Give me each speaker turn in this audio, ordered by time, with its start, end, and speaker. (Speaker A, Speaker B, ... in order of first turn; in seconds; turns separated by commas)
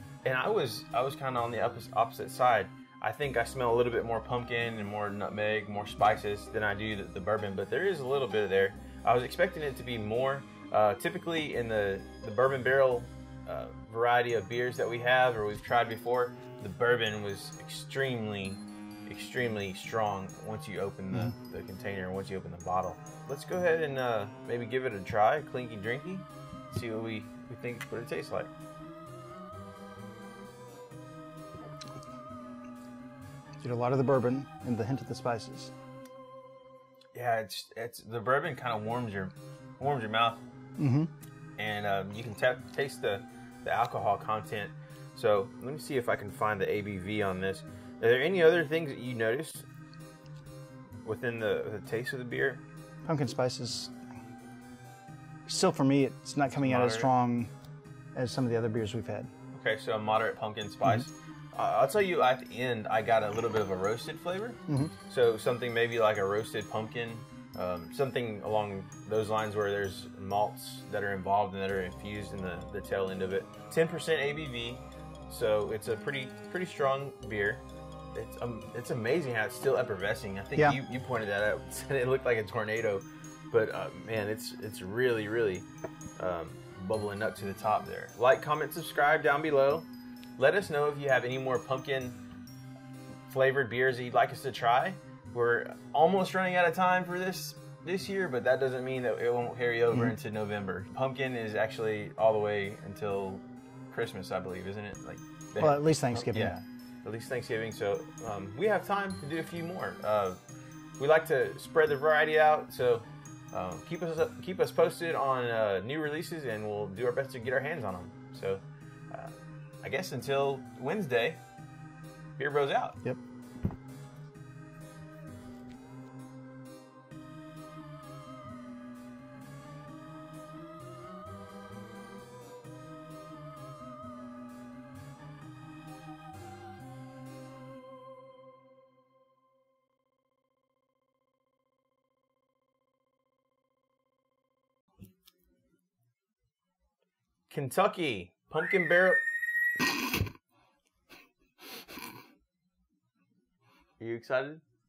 Speaker A: 0.2-28.5, Speaker B: 33.6-35.7, Speaker A: 37.1-40.4, Speaker B: 40.8-41.1, Speaker A: 41.6-49.7, Speaker A: 51.0-52.6, Speaker B: 53.0-53.9, Speaker B: 55.5-57.5, Speaker A: 56.5-57.1, Speaker B: 58.1-59.3, Speaker A: 59.5-92.2, Speaker B: 64.7-64.9, Speaker A: 93.3-110.4, Speaker B: 105.6-106.6, Speaker A: 111.0-121.4, Speaker A: 122.4-123.0, Speaker A: 147.5-149.2, Speaker A: 154.0-154.6